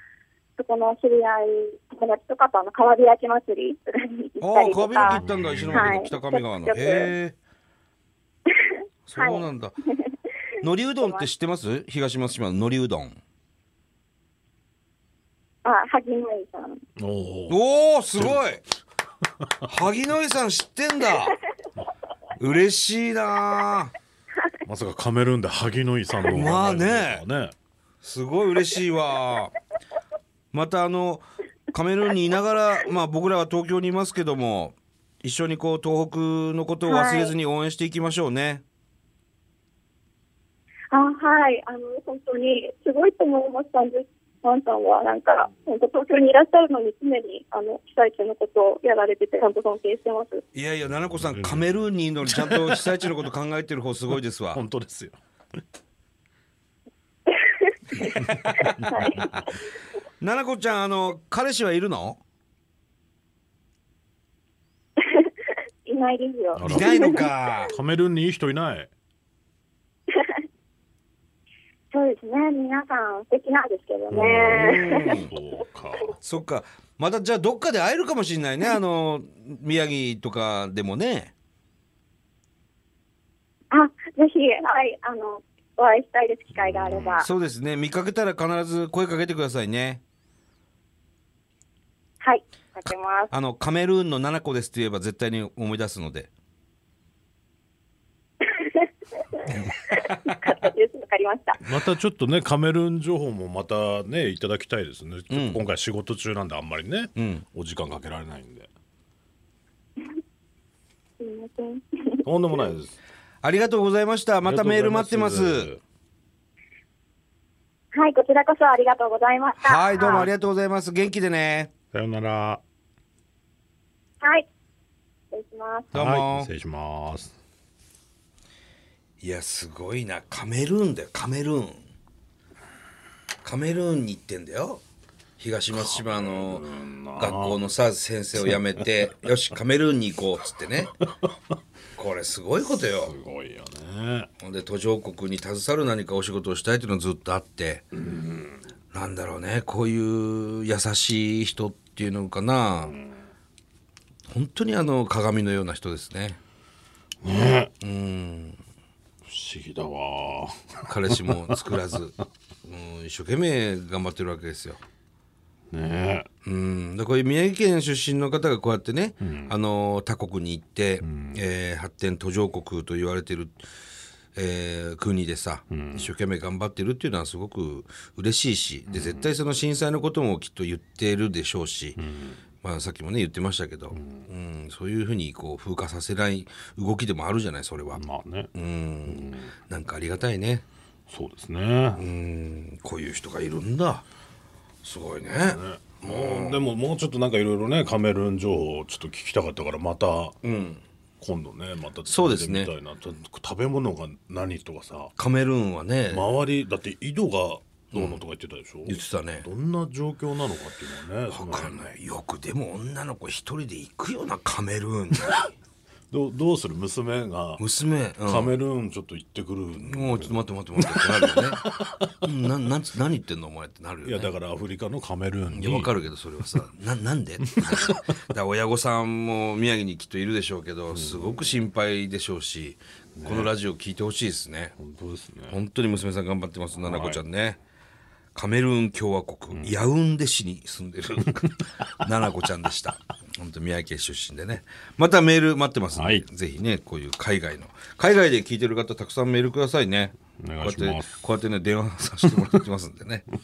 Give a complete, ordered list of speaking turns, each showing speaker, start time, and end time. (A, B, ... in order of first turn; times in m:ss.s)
0:00.6-0:07.1 A
0:04.4-0:07.4 B
0:05.1-0:06.0 C
0:08.6-0:09.5 A
0:09.1-0:09.8 B
0:10.6-0:13.2 B
0:11.0-0:11.3 A
0:15.6-0:16.8 A
0:17.0-0:17.6 C
0:17.5-0:18.6 B
0:18.2-0:18.4 C
0:19.6-0:21.4 B
0:22.4-0:23.9 B
0:24.6-0:27.5 C
0:26.3-0:27.2 B
0:28.0-0:29.5 B
0:30.5-0:38.6 B
0:36.8-0:37.3 A
0:40.9-0:50.4 A
0:50.5-0:54.6 B
0:51.0-0:53.1 C
0:54.5-0:55.2 C
0:57.6-0:59.4 A
0:58.4-0:59.4 C
1:00.2-1:02.2 B
1:05.0-1:05.3 A
1:05.8-1:07.3 A
1:06.5-1:08.9 C
1:06.6-1:07.7 B
1:11.9-1:15.2 A
1:14.1-1:16.2 C
1:14.5-1:15.3 B
1:16.2-1:21.3 B
1:23.7-1:27.3 A
1:26.5-1:27.2 C
1:27.2-1:30.0 B
1:32.2-1:33.3 A
1:32.9-1:36.3 B
1:38.4-1:41.6 A
1:41.6-1:48.7 C
1:45.3-1:45.6 B
1:47.2-1:47.4 B
1:51.2-1:52.2 A
1:52.2-1:52.9 C
1:53.4-1:55.7 B
1:54.4-1:55.8 C
1:57.9-2:00.3 A
1:59.6-2:01.7 B
2:01.9-2:02.6 C
2:05.3-2:05.9 A
2:05.9-2:06.5 B
2:05.9-2:07.4 C
2:09.2-2:11.9 B
2:13.4-2:14.8 B
2:15.4-2:16.6 B
2:15.7-2:17.7 C
2:17.2-2:20.9 B
2:22.0-2:23.1 B
2:22.9-2:24.3 C
2:24.4-2:27.8 B
2:27.9-2:28.6 C
2:28.9-2:32.9 B
2:32.9-2:33.2 C
2:34.3-2:36.4 B
2:37.2-2:37.7 C
2:37.8-2:38.6 B
2:39.2-2:41.8 C
2:40.9-2:44.8 B
2:45.7-2:46.3 C
2:46.4-2:53.6 B
2:49.2-2:49.5 C
2:51.0-2:51.4 C
2:54.4-3:02.0 B
2:55.7-2:56.1 C
2:58.9-2:59.3 C
3:02.0-3:02.4 C
3:02.6-3:08.0 B
3:03.9-3:04.3 C
3:07.9-3:08.5 C
3:08.5-3:10.6 B
3:09.1-3:09.5 C
3:11.1-3:12.0 C
3:12.0-3:14.0 B
3:14.8-3:16.7 B
3:15.3-3:20.4 C
3:20.4-3:20.8 B
3:21.2-3:25.1 C
3:22.1-3:22.7 B
3:25.2-3:26.3 B
3:26.1-3:31.9 C
3:27.9-3:28.2 B
3:28.9-3:29.4 B
3:31.3-3:35.5 B
3:36.1-3:37.6 C
3:37.6-3:38.5 B
3:38.2-3:42.1 C
3:39.8-3:41.6 B
3:42.2-3:44.3 B
3:44.0-3:45.9 C
3:45.5-3:54.7 B
3:47.5-3:48.0 C
3:50.9-3:51.6 C
3:53.2-3:53.5 C
3:54.8-3:55.6 C
3:55.5-3:57.6 B
3:56.8-3:57.2 C
3:58.4-4:13.2 B
4:05.9-4:06.2 C
4:10.4-4:11.2 C